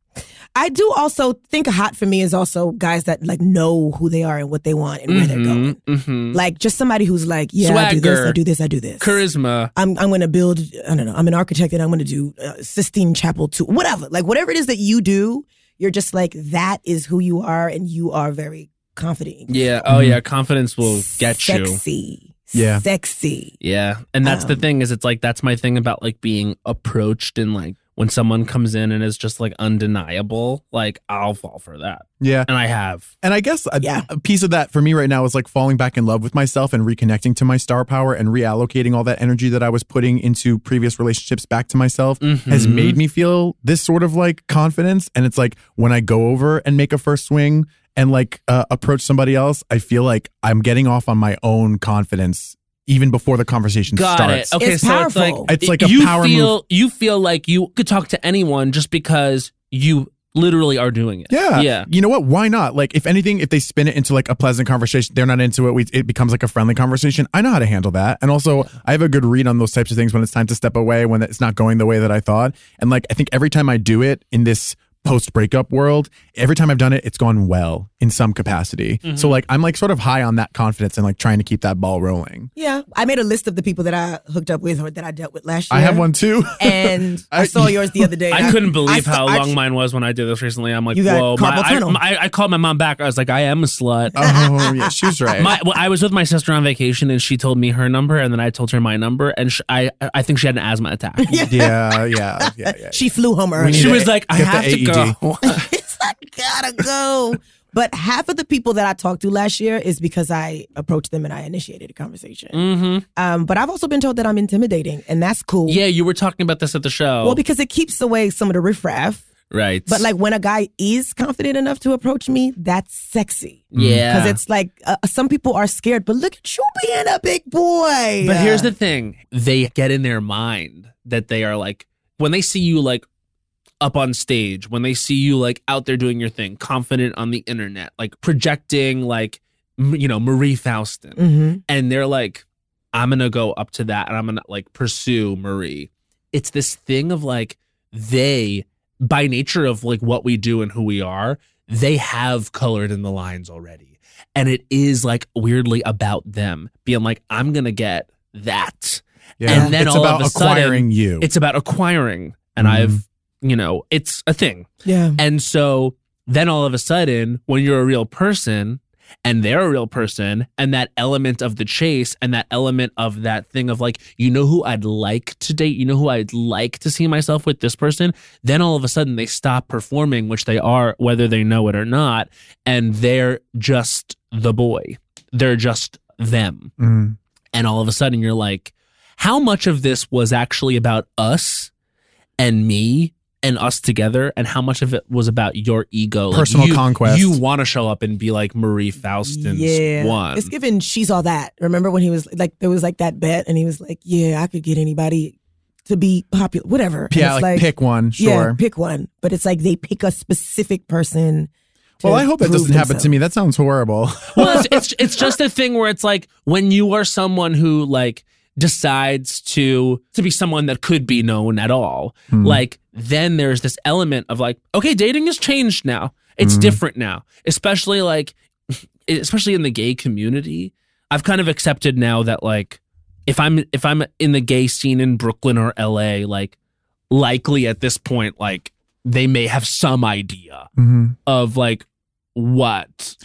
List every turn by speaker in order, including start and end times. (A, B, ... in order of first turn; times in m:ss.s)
0:00.6-0:05.8 A
0:05.1-0:06.4 B
0:06.3-0:09.2 A
0:07.6-0:08.4 B
0:09.0-0:09.7 B
0:09.8-0:19.8 A
0:19.5-0:21.8 B
0:19.9-0:20.2 C
0:20.8-0:23.6 A
0:22.5-0:22.8 C
0:23.6-0:33.1 B
0:24.2-0:24.6 A
0:32.2-0:32.5 C
0:33.2-0:54.5 C
0:33.8-0:34.1 A
0:42.2-0:43.0 B
0:53.9-1:01.9 B
0:54.6-0:55.5 A
0:55.5-0:56.6 C
1:01.3-1:22.5 C
1:19.0-1:19.4 B
1:22.6-1:29.6 A
1:25.7-1:28.6 C
1:28.3-1:34.2 B
1:30.9-1:32.0 A
1:34.2-1:35.5 A
1:34.2-1:35.5 C
1:35.4-1:41.4 B
1:41.2-1:44.1 A
1:41.5-1:45.2 C
1:43.7-1:45.6 B
1:45.4-1:55.8 A
1:52.5-1:53.0 B
1:55.7-1:57.4 B
1:57.2-1:59.3 A
1:59.5-2:00.1 B
1:59.9-2:08.7 A
2:03.7-2:04.4 B
2:03.8-2:04.0 C
2:08.2-2:13.0 B
2:13.8-3:06.7 B
2:21.2-2:21.6 A
2:39.4-2:41.3 C
2:39.5-2:39.8 A
2:42.6-2:43.0 C
2:44.8-2:45.2 A
3:06.8-3:07.2 C
3:07.5-3:11.7 B
3:12.4-3:20.5 B
3:16.3-3:17.4 C
3:19.2-3:25.4 A
3:25.9-3:31.5 A
3:27.1-3:28.6 C
3:32.0-3:35.2 C
3:32.0-3:33.1 A
3:34.4-3:56.6 B
3:42.3-3:42.6 C
3:46.4-3:46.8 C
3:57.1-4:00.7 B
4:00.8-4:01.2 C
4:01.3-4:03.2 B